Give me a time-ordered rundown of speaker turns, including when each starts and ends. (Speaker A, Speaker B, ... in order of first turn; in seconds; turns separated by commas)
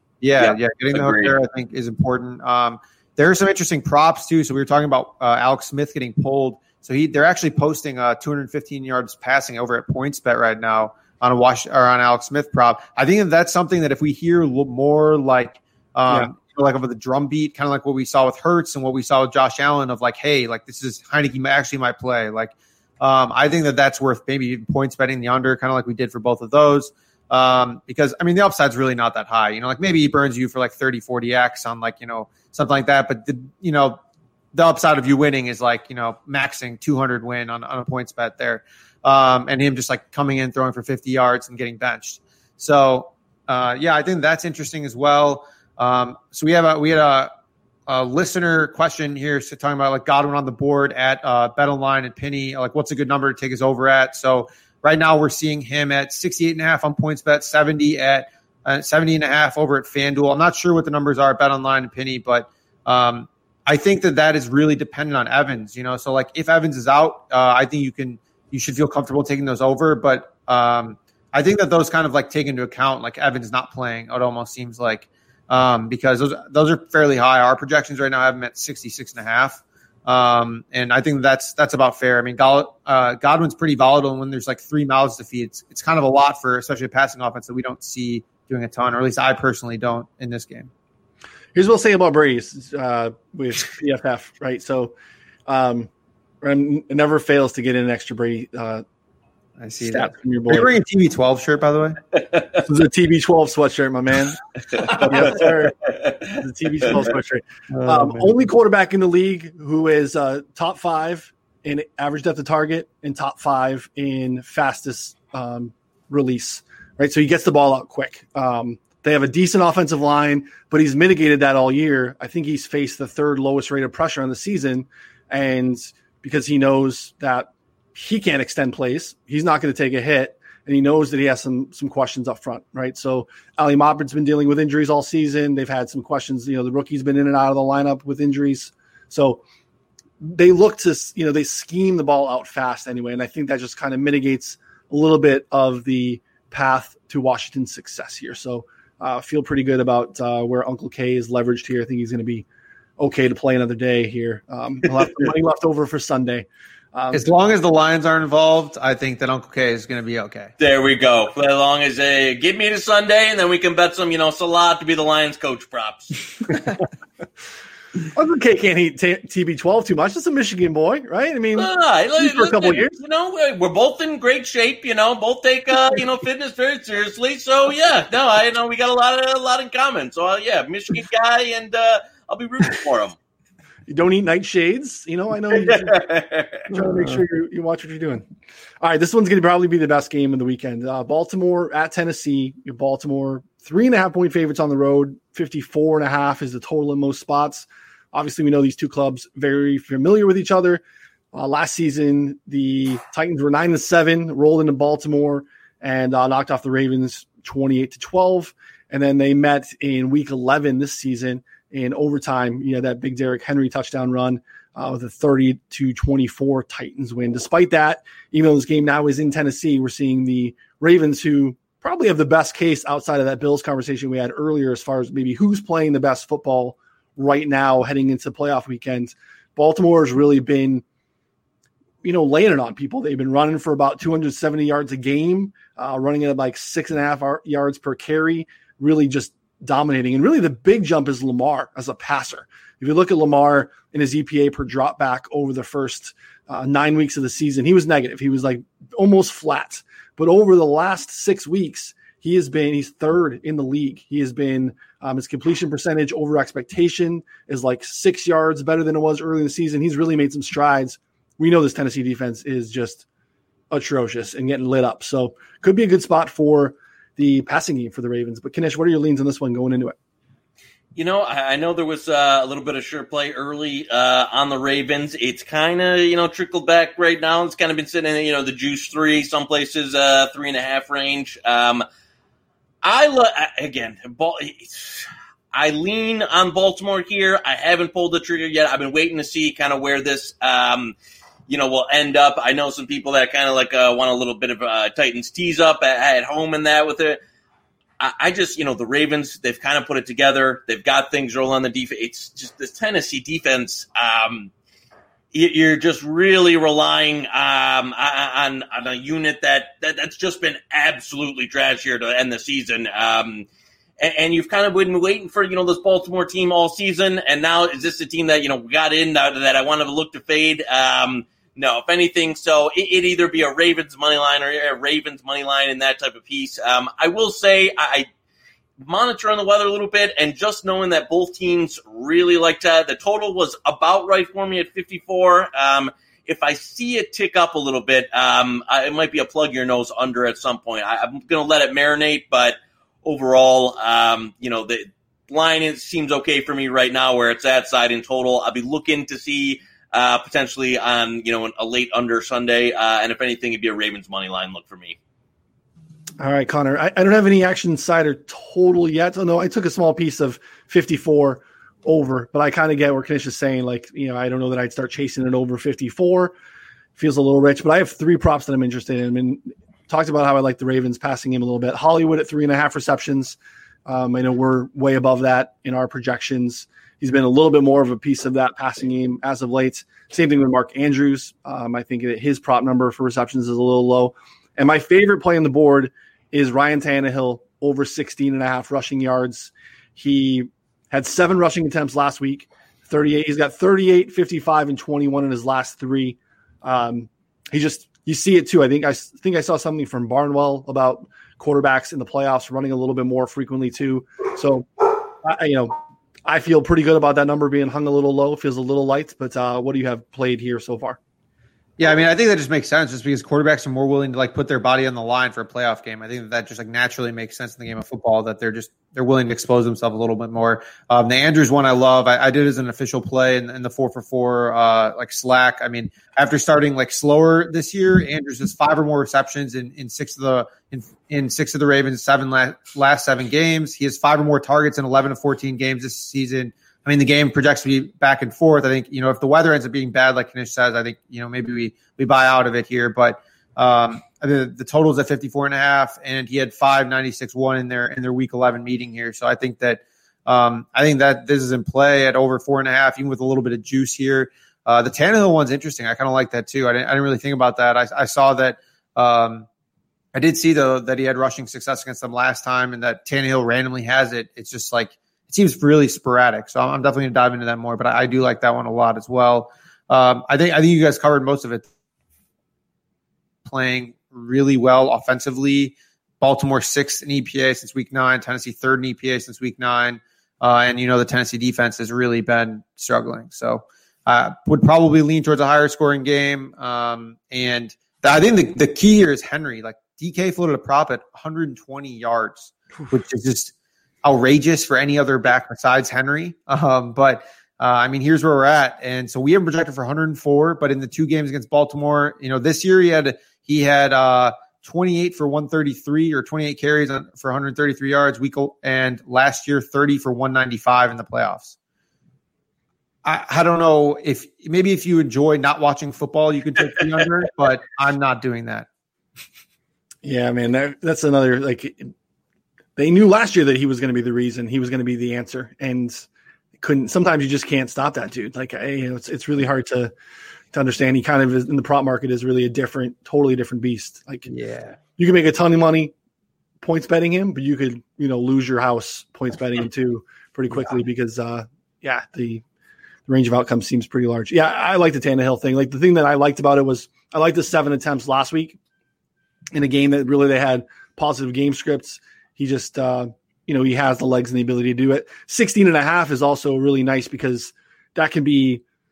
Speaker A: 0.2-34.0, Speaker B: 0.4-1.3, Speaker A: 34.5-47.3, Speaker A: 47.9-90.7, Speaker C: 91.5-94.9, Speaker C: 95.5-95.9, Speaker C: 96.4-98.8, Speaker A: 99.6-102.0, Speaker C: 99.8-100.7, Speaker B: 102.1-102.6, Speaker C: 102.7-139.4, Speaker B: 104.8-106.9, Speaker A: 107.7-108.3, Speaker C: 140.2-152.4, Speaker C: 153.0-157.2, Speaker A: 157.1-160.5, Speaker B: 160.6-166.1, Speaker C: 168.1-173.0, Speaker B: 171.5-183.2, Speaker C: 183.9-186.0, Speaker B: 185.5-186.7, Speaker C: 186.7-188.2, Speaker C: 188.8-230.8, Speaker C: 232.0-263.1, Speaker C: 263.7-269.9, Speaker B: 270.9-281.8, Speaker B: 282.8-290.9, Speaker B: 291.5-297.2, Speaker B: 298.0-304.5, Speaker B: 305.3-313.5, Speaker B: 314.0-328.1, Speaker B: 328.8-355.0, Speaker C: 356.2-366.3, Speaker C: 366.9-405.7, Speaker C: 406.2-411.0, Speaker A: 411.8-459.5, Speaker A: 460.1-471.7, Speaker A: 473.4-493.5, Speaker A: 494.0-511.6, Speaker A: 513.0-518.7, Speaker C: 520.0-521.9, Speaker C: 522.8-526.1, Speaker C: 526.6-529.9, Speaker C: 530.5-534.3, Speaker A: 534.3-534.8, Speaker C: 535.0-535.9, Speaker C: 536.6-542.4, Speaker C: 543.1-548.6, Speaker C: 549.5-558.6